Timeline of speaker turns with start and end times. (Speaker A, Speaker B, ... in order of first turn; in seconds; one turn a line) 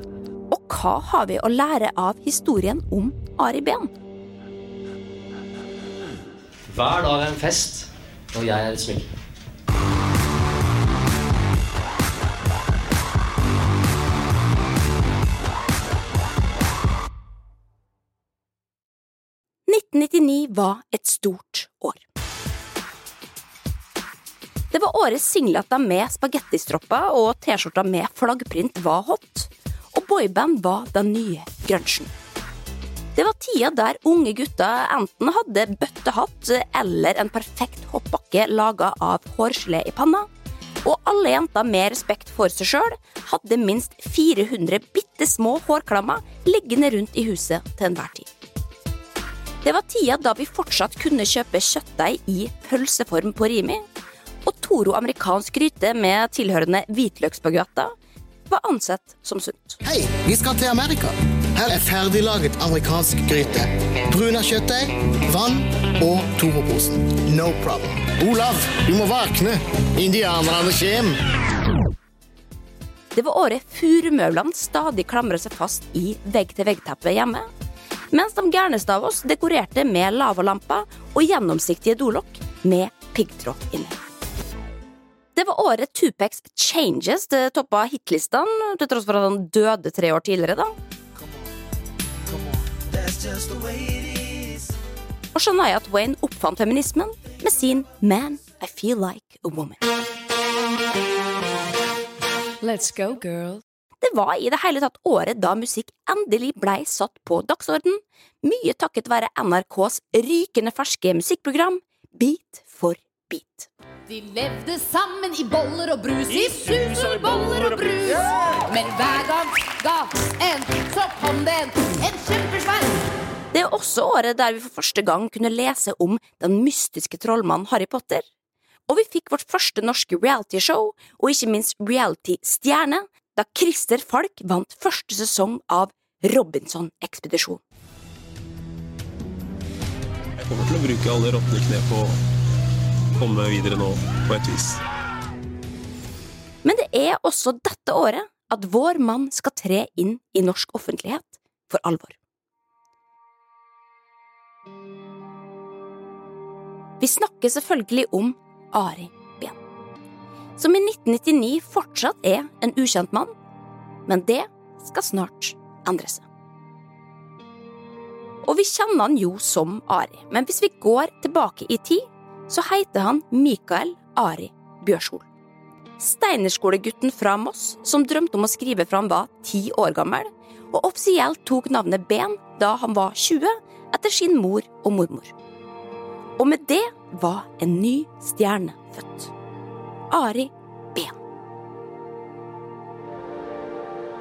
Speaker A: 0.5-3.9
Speaker B: 6.7-9.1
Speaker A: 19.7-22.0
Speaker A: 24.7-32.1
Speaker A: 33.1-40.3
Speaker A: 40.8-48.3
Speaker A: 49.6-53.8
Speaker A: 54.4-57.9
Speaker A: 58.5-59.8
Speaker C: 59.8-71.2
Speaker A: 73.1-77.5
Speaker A: 78.1-84.0
Speaker A: 85.3-90.7
Speaker A: 95.3-99.8
Speaker D: 102.6-103.6
Speaker A: 104.0-113.7
Speaker D: 114.1-123.0
Speaker A: 123.5-128.2
Speaker A: 128.9-137.6
Speaker E: 140.4-142.2
Speaker E: 143.2-144.8
Speaker A: 146.6-152.2
Speaker A: 157.0-159.6
Speaker A: 160.6-163.3
Speaker A: 164.1-166.2
Speaker A: 168.4-175.2
Speaker A: 176.0-185.3
Speaker A: 186.4-189.3
Speaker A: 190.1-191.1